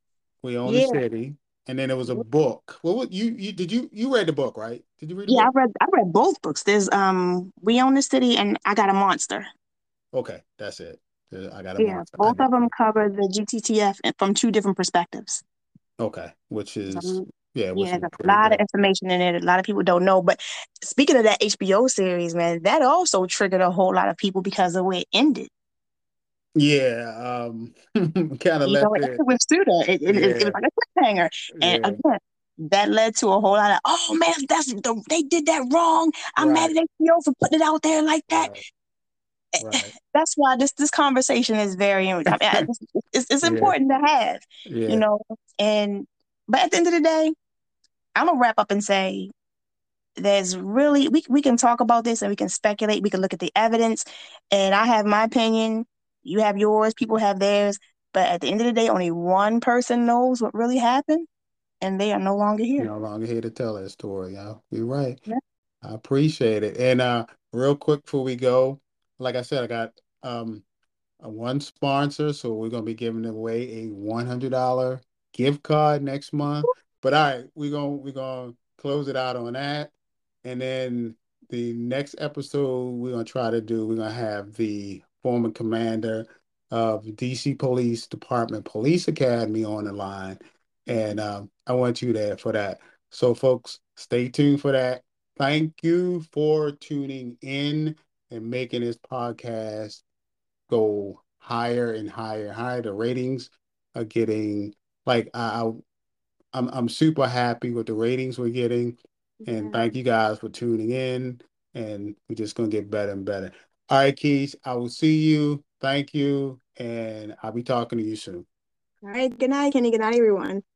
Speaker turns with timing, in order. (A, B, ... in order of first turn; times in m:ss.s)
0:00.4-0:05.5 A
0:00.6-0:01.0 B
0:05.3-0:09.5 B
0:10.1-0:12.7 A
0:11.8-0:15.4 B
0:16.0-0:18.6 A
0:16.9-0:25.5 B
0:26.6-0:29.2 A
0:28.6-0:38.5 B
0:30.1-0:30.6 A
0:31.6-0:32.0 A
0:36.4-0:36.7 A
0:38.3-0:38.6 A
0:39.6-0:39.9 A
0:39.7-0:47.3 B
0:42.3-0:42.7 A
0:43.4-0:43.8 A
0:44.7-0:45.0 A
0:48.2-0:49.3 B
0:50.2-1:01.3 B
1:01.8-1:02.9 B
1:02.8-1:05.2 A
1:05.8-1:10.6 A
1:11.2-1:19.9 A
1:20.4-1:40.0 A
1:40.7-1:45.8 A
1:46.5-1:58.5 A
1:49.4-1:49.9 B
1:59.0-2:00.6 B